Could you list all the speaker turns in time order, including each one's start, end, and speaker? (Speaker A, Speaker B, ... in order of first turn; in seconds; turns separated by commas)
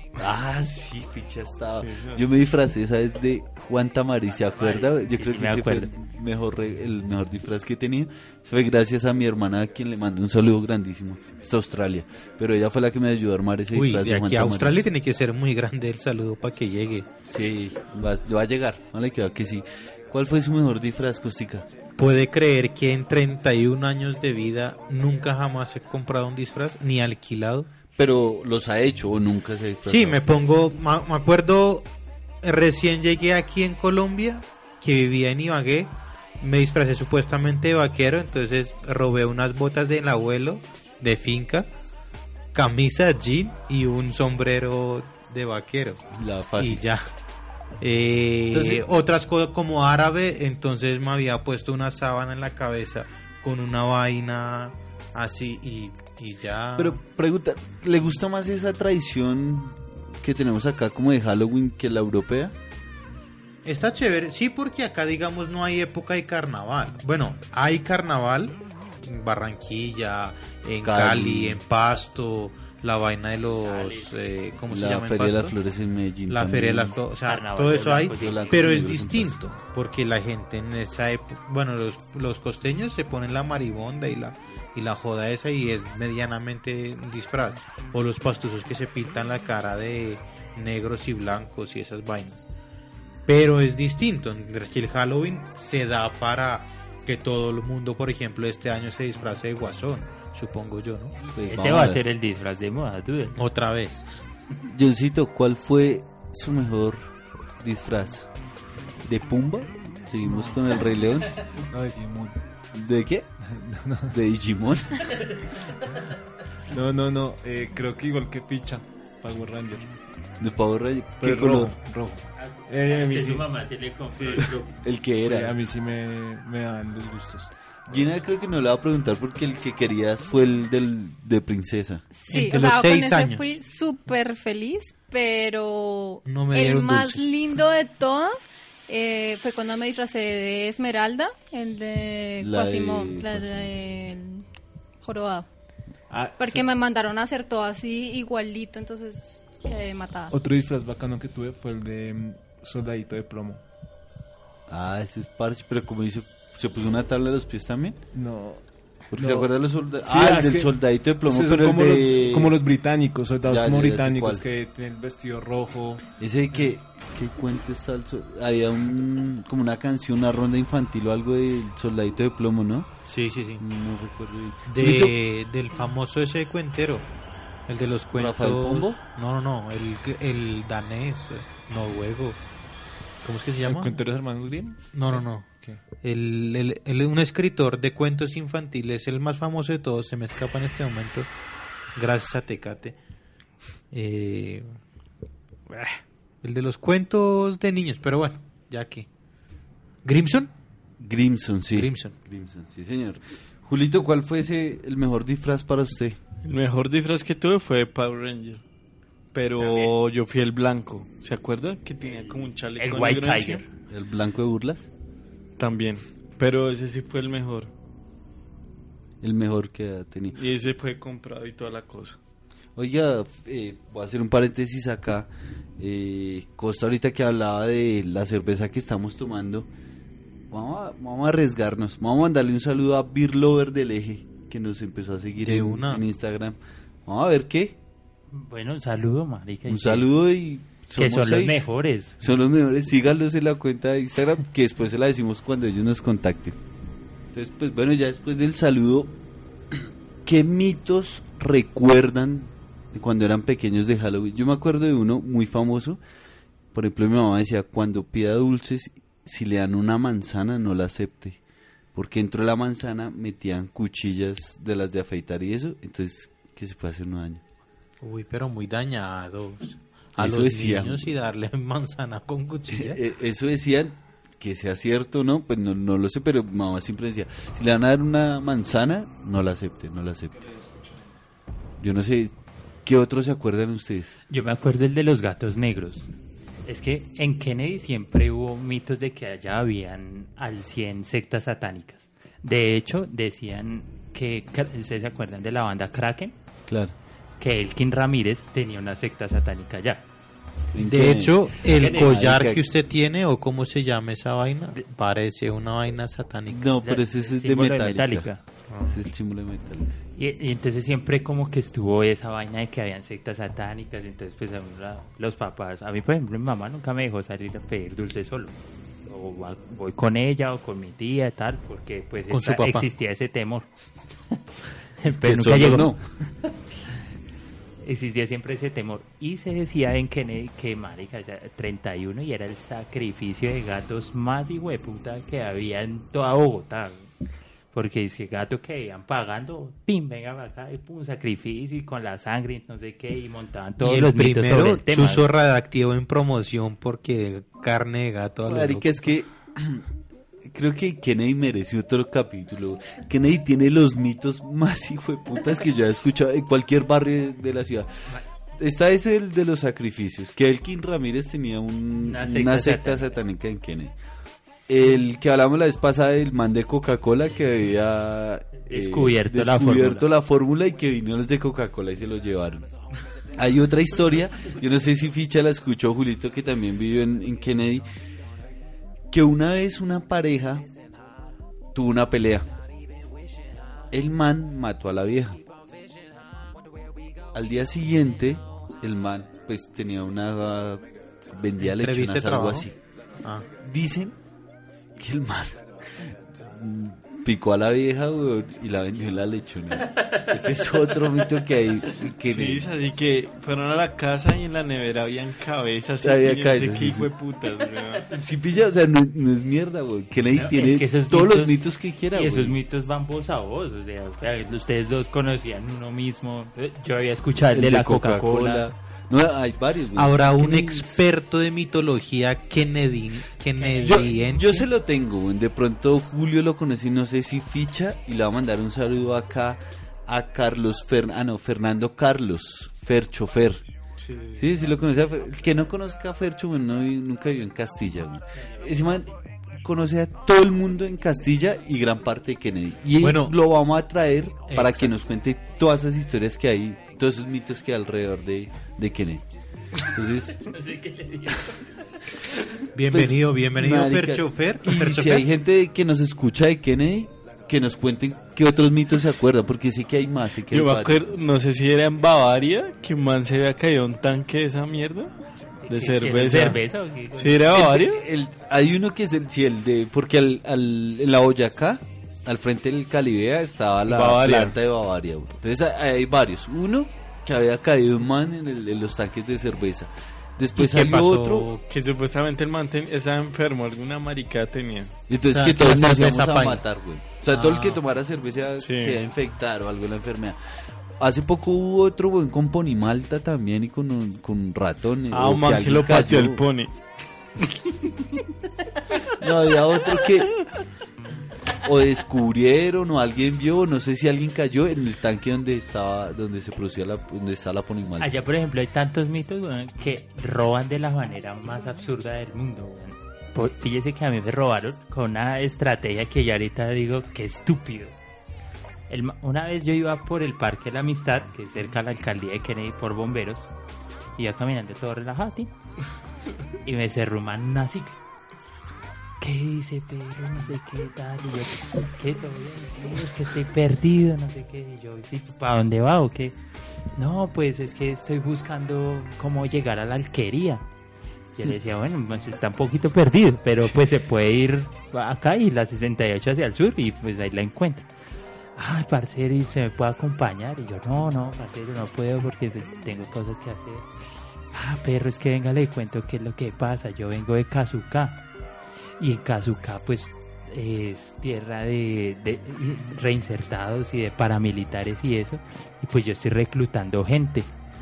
Speaker A: 0.2-14.9, Speaker B: 1.8-2.2, Speaker C: 4.3-5.9, Speaker D: 13.7-17.1, Speaker A: 17.3-21.6, Speaker D: 22.0-27.7, Speaker A: 27.9-30.2, Speaker D: 29.9-31.9, Speaker D: 32.4-41.7, Speaker D: 42.5-46.0, Speaker A: 46.1-46.8, Speaker D: 46.6-47.1, Speaker D: 47.8-57.0, Speaker A: 48.5-48.8, Speaker A: 56.8-62.5, Speaker D: 63.6-75.5, Speaker A: 70.8-71.6, Speaker C: 73.3-74.2, Speaker A: 74.7-77.0, Speaker D: 76.3-92.5, Speaker C: 77.2-79.0, Speaker A: 78.2-79.5, Speaker D: 93.3-101.2, Speaker C: 101.2-103.4, Speaker A: 101.3-102.0, Speaker D: 103.3-104.0, Speaker A: 104.6-108.3, Speaker A: 109.0-111.4, Speaker E: 110.2-110.6, Speaker E: 111.5-112.4, Speaker A: 112.7-113.3, Speaker E: 113.5-114.1, Speaker A: 114.1-115.1, Speaker C: 115.2-115.6, Speaker E: 116.7-119.9, Speaker A: 120.4-121.7, Speaker E: 121.2-123.5, Speaker C: 122.3-124.7, Speaker E: 124.2-124.5, Speaker A: 124.8-125.5, Speaker E: 125.2-128.1, Speaker A: 127.9-132.0, Speaker F: 132.1-144.4, Speaker D: 132.3-133.5, Speaker D: 136.3-137.3, Speaker A: 142.4-143.7, Speaker F: 145.0-145.5, Speaker E: 146.1-146.7, Speaker F: 146.4-150.3, Speaker E: 150.3-153.6, Speaker A: 154.7-158.0, Speaker E: 158.1-159.5, Speaker A: 159.1-162.5, Speaker E: 160.0-160.7, Speaker E: 161.2-166.0, Speaker A: 163.4-164.4, Speaker A: 166.2-172.9, Speaker D: 173.1-173.6, Speaker A: 173.6-175.2, Speaker D: 174.7-177.1, Speaker D: 177.7-182.4, Speaker A: 178.1-179.0, Speaker D: 183.2-184.0, Speaker E: 183.6-185.8, Speaker D: 184.9-191.3, Speaker D: 191.9-192.9, Speaker D: 193.9-194.7, Speaker D: 195.7-199.1, Speaker D: 200.0-200.5, Speaker A: 201.0-206.2, Speaker D: 201.7-202.1, Speaker B: 206.4-208.6, Speaker B: 209.3-213.6, Speaker C: 209.6-209.9, Speaker C: 212.8-213.6, Speaker A: 213.9-214.9, Speaker B: 215.6-217.7, Speaker A: 219.2-220.4, Speaker B: 220.3-222.2, Speaker A: 222.8-229.7, Speaker A: 230.5-237.8, Speaker D: 235.4-236.0, Speaker C: 238.3-240.1, Speaker A: 239.7-241.7, Speaker C: 240.9-242.1, Speaker A: 242.2-246.6, Speaker A: 247.3-249.2, Speaker A: 249.7-256.0, Speaker A: 256.7-261.4, Speaker A: 261.9-267.4, Speaker D: 268.0-273.0, Speaker A: 270.1-271.1, Speaker A: 272.7-280.4, Speaker E: 280.3-281.1, Speaker A: 281.8-284.1, Speaker C: 284.3-286.1, Speaker C: 286.6-296.3, Speaker A: 296.7-296.9, Speaker C: 297.4-300.1, Speaker A: 300.7-302.6, Speaker D: 300.8-306.7, Speaker C: 301.7-302.2, Speaker A: 306.5-308.3, Speaker C: 306.8-308.4, Speaker A: 308.8-309.9, Speaker C: 310.2-318.5, Speaker C: 319.1-323.7, Speaker D: 322.3-322.9, Speaker C: 325.0-325.9, Speaker A: 325.1-326.0, Speaker C: 327.8-337.1, Speaker C: 337.7-345.3, Speaker D: 343.8-348.9, Speaker A: 348.5-349.8, Speaker A: 350.4-357.9, Speaker A: 358.6-363.9, Speaker C: 362.0-363.2, Speaker A: 364.7-372.7, Speaker C: 368.6-370.1, Speaker A: 373.3-377.8, Speaker A: 379.1-380.6, Speaker A: 381.7-382.5, Speaker A: 383.9-385.4, Speaker A: 387.3-392.7, Speaker D: 391.6-392.7, Speaker D: 393.2-393.5, Speaker A: 393.6-394.1, Speaker A: 394.9-402.7, Speaker C: 399.9-400.3, Speaker B: 402.2-408.1, Speaker A: 406.0-407.1, Speaker A: 408.1-412.6, Speaker C: 410.3-418.7, Speaker A: 417.5-421.0, Speaker D: 419.9-424.7, Speaker C: 423.6-424.1, Speaker A: 423.8-433.6, Speaker B: 434.0-434.5, Speaker A: 434.4-449.2, Speaker C: 438.4-439.1, Speaker D: 443.0-443.3, Speaker D: 444.5-444.9, Speaker A: 449.8-450.4, Speaker C: 450.5-451.6, Speaker D: 452.7-455.3, Speaker A: 452.9-461.0, Speaker B: 460.5-465.1, Speaker C: 465.6-467.4, Speaker B: 465.7-468.0, Speaker A: 467.5-481.5, Speaker B: 473.9-474.5, Speaker D: 480.6-481.6, Speaker B: 481.7-485.0, Speaker A: 485.1-490.4, Speaker D: 485.3-486.6, Speaker D: 487.3-487.8, Speaker B: 488.6-489.0, Speaker A: 491.0-496.4, Speaker B: 495.1-496.8, Speaker A: 499.1-500.4, Speaker A: 501.6-508.1, Speaker C: 508.0-517.9, Speaker C: 518.9-523.5, Speaker C: 524.2-525.5, Speaker C: 526.6-528.0, Speaker C: 529.2-536.4, Speaker C: 536.9-540.6, Speaker C: 541.3-547.9, Speaker C: 548.5-553.9, Speaker C: 554.5-558.2, Speaker C: 559.0-567.5